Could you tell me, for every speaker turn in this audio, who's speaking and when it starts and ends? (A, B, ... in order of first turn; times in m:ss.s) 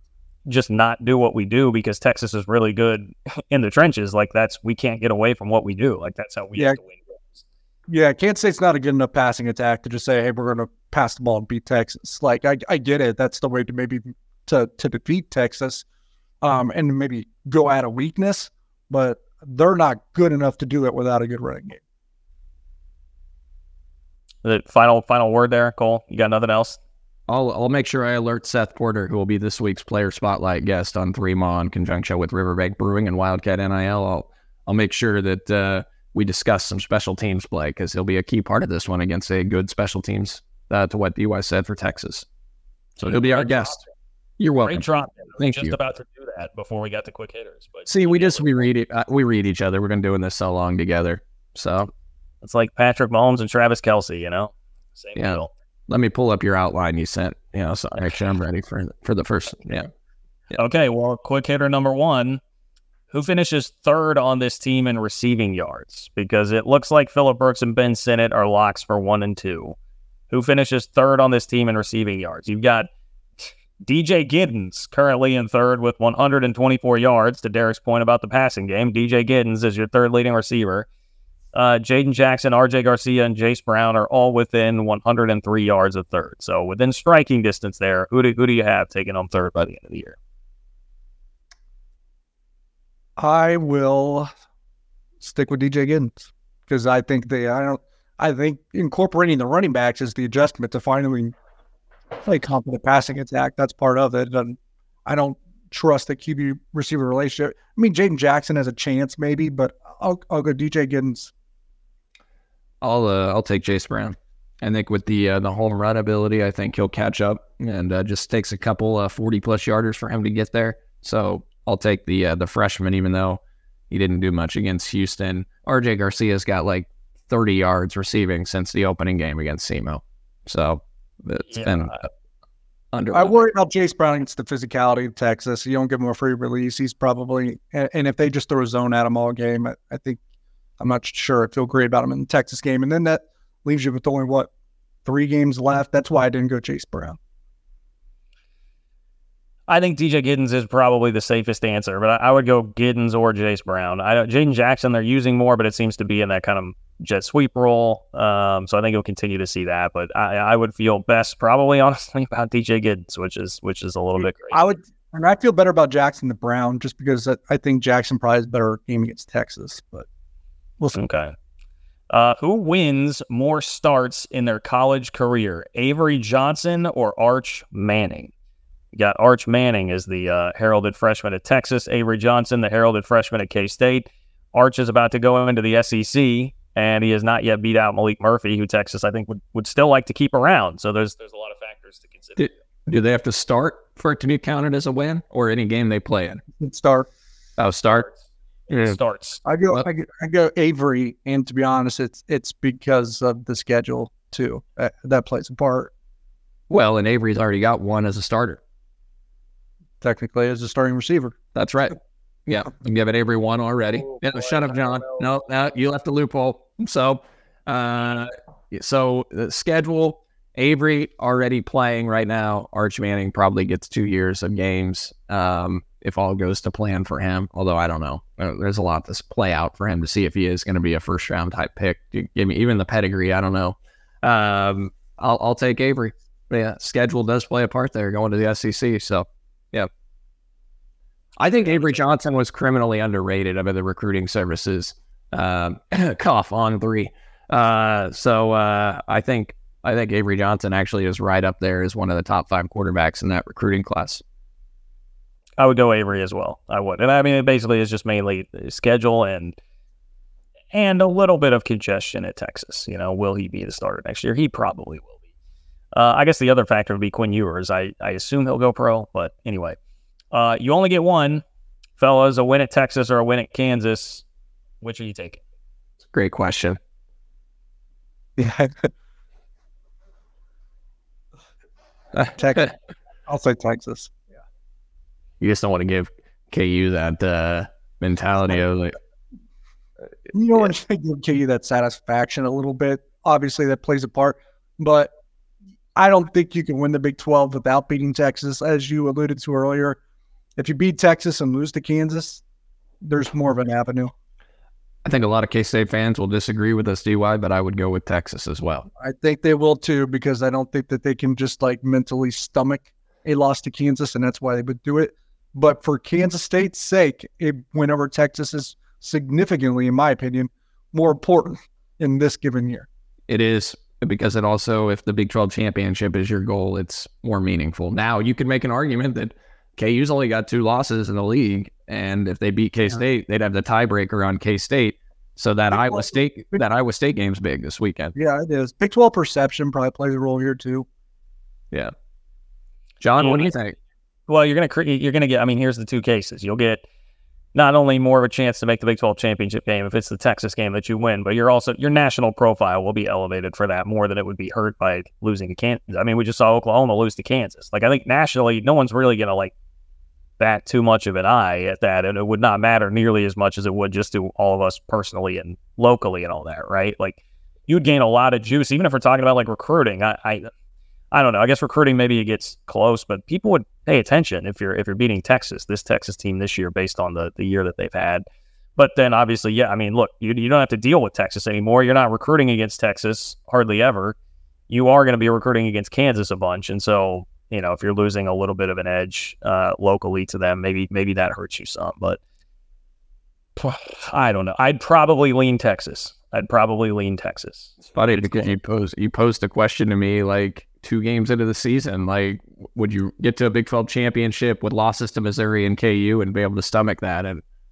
0:00.4-0:07.4 A
0:07.9-0:15.8 B
0:16.4-0:21.8 B
0:24.4-0:26.8 A
0:27.3-0:42.2 C
0:43.0-0:43.8 C
0:43.0-0:43.8 A
0:44.4-0:44.8 C
0:44.6-0:48.5 A
0:45.4-0:45.8 C
0:47.9-0:51.9 C
0:52.4-0:55.5 A
0:55.2-0:59.9 C
1:00.5-1:02.4 A
1:03.1-1:09.8 A
1:10.3-1:12.9 A
1:13.4-1:20.9 A
1:21.5-1:30.2 A
1:33.2-1:34.3 B
1:35.2-1:41.3 B
1:42.2-1:51.3 B
1:52.8-2:03.4 C
2:03.9-2:12.0 C
2:11.5-2:12.0 A
2:12.9-2:13.4 C
2:13.1-2:20.2 B
2:20.8-2:24.5 B
2:25.0-2:27.2 B
2:29.7-2:44.6 A
2:44.5-2:50.0 B
2:50.9-2:51.3 A
2:52.1-2:58.3 A
2:58.9-3:12.5 A
3:12.4-3:16.4 C
3:16.6-3:17.1 B
3:17.6-3:18.1 C
3:18.7-3:19.4 A
3:18.7-3:19.0 C
3:19.4-3:25.9 B
3:26.7-3:28.6 C
3:30.0-3:31.4 B
3:31.5-3:32.0 C
3:32.5-3:59.9 C
3:34.3-3:35.2 A
4:01.4-4:14.2 C
4:01.4-4:02.0 A
4:15.6-4:19.6 A
4:20.7-4:25.1 A
4:25.9-4:29.8 A
4:30.3-4:31.4 A
4:32.0-4:34.2 A
4:34.8-4:35.4 A
4:36.1-4:36.8 C
4:38.4-4:38.9 B
4:42.1-4:42.6 C
4:42.4-4:42.7 B
4:43.3-4:44.1 B
4:45.4-4:49.0 C
4:50.3-4:55.1 B
4:56.0-5:00.0 B
5:00.6-5:02.4 B
5:03.0-5:04.1 B
5:05.0-5:08.9 C
5:09.0-5:22.9 B
5:23.3-5:38.1 C
5:35.7-5:36.6 B
5:38.1-5:40.8 B
5:43.0-5:43.8 C
5:43.2-5:43.5 A
5:44.3-5:46.8 A
5:47.5-5:59.5 A
6:00.4-6:10.5 A
6:11.1-6:18.2 A
6:18.8-6:24.2 A
6:24.7-6:32.2 A
6:33.6-6:38.5 A
6:37.9-6:47.4 C